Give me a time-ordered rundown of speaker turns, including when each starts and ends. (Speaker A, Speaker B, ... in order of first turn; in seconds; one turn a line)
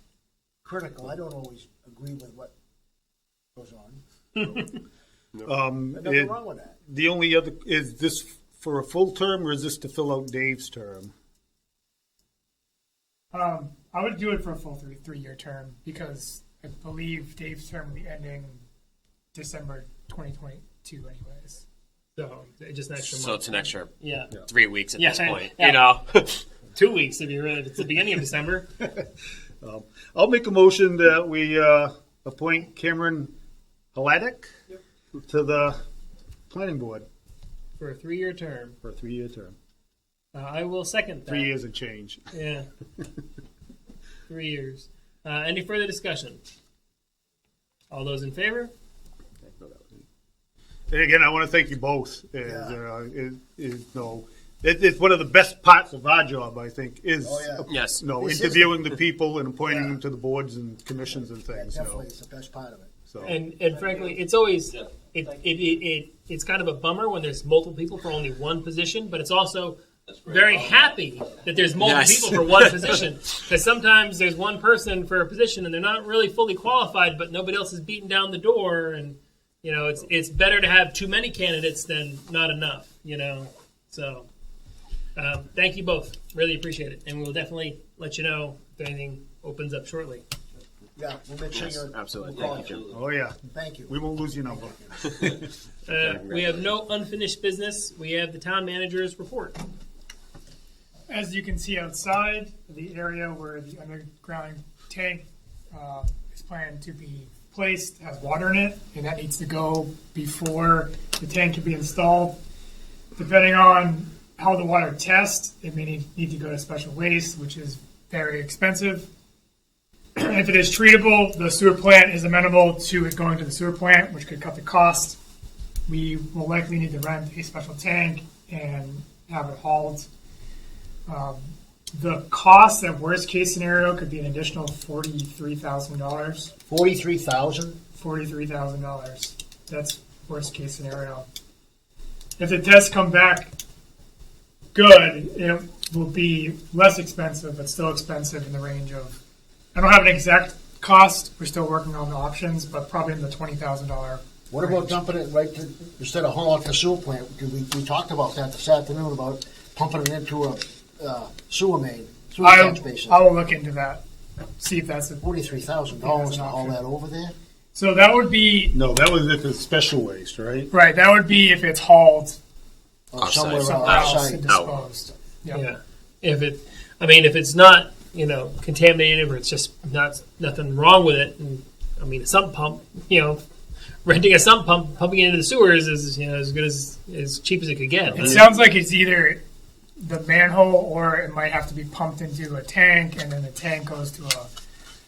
Speaker A: 0.6-2.5
Speaker A: 3.5-4.0
Speaker B: 5.5-11.1
Speaker A: 5.9-6.8
Speaker C: 13.3-18.6
Speaker C: 19.3-21.6
Speaker D: 22.2-24.4
Speaker E: 23.0-26.4
Speaker D: 24.9-25.9
Speaker D: 26.6-28.7
Speaker B: 28.8-29.1
Speaker B: 29.6-33.3
Speaker B: 33.9-34.5
Speaker B: 35.2-35.8
Speaker B: 36.5-37.1
Speaker D: 37.8-38.8
Speaker B: 38.8-39.5
Speaker D: 40.3-41.5
Speaker B: 41.3-42.2
Speaker D: 42.3-42.7
Speaker D: 44.3-46.4
Speaker D: 47.9-48.7
Speaker E: 49.5-50.0
Speaker B: 50.9-62.1
Speaker A: 52.4-52.8
Speaker A: 57.2-57.7
Speaker E: 57.7-58.0
Speaker A: 58.2-58.7
Speaker A: 61.4-62.9
Speaker B: 63.1-63.4
Speaker D: 63.2-84.3
Speaker E: 71.8-73.0
Speaker D: 85.2-90.2
Speaker A: 91.0-92.9
Speaker E: 91.5-93.0
Speaker B: 92.9-93.4
Speaker A: 93.5-95.2
Speaker B: 93.9-95.3
Speaker D: 95.9-99.6
Speaker E: 96.0-96.7
Speaker C: 101.1-112.4
Speaker C: 113.2-119.1
Speaker C: 120.2-125.2
Speaker C: 125.9-130.1
Speaker C: 131.1-136.5
Speaker A: 136.7-137.8
Speaker C: 138.0-141.3
Speaker C: 142.4-143.5
Speaker C: 144.8-149.2
Speaker C: 149.8-155.0
Speaker A: 154.5-163.2
Speaker C: 162.4-164.0
Speaker C: 164.6-165.2
Speaker A: 165.2-167.3
Speaker C: 165.9-166.8
Speaker C: 167.8-168.8
Speaker B: 168.7-170.7
Speaker C: 170.7-172.4
Speaker A: 173.1-174.4
Speaker E: 173.2-174.8
Speaker C: 173.6-175.7
Speaker D: 175.5-183.4
Speaker D: 184.1-188.4
Speaker C: 188.2-189.4
Speaker C: 190.0-194.5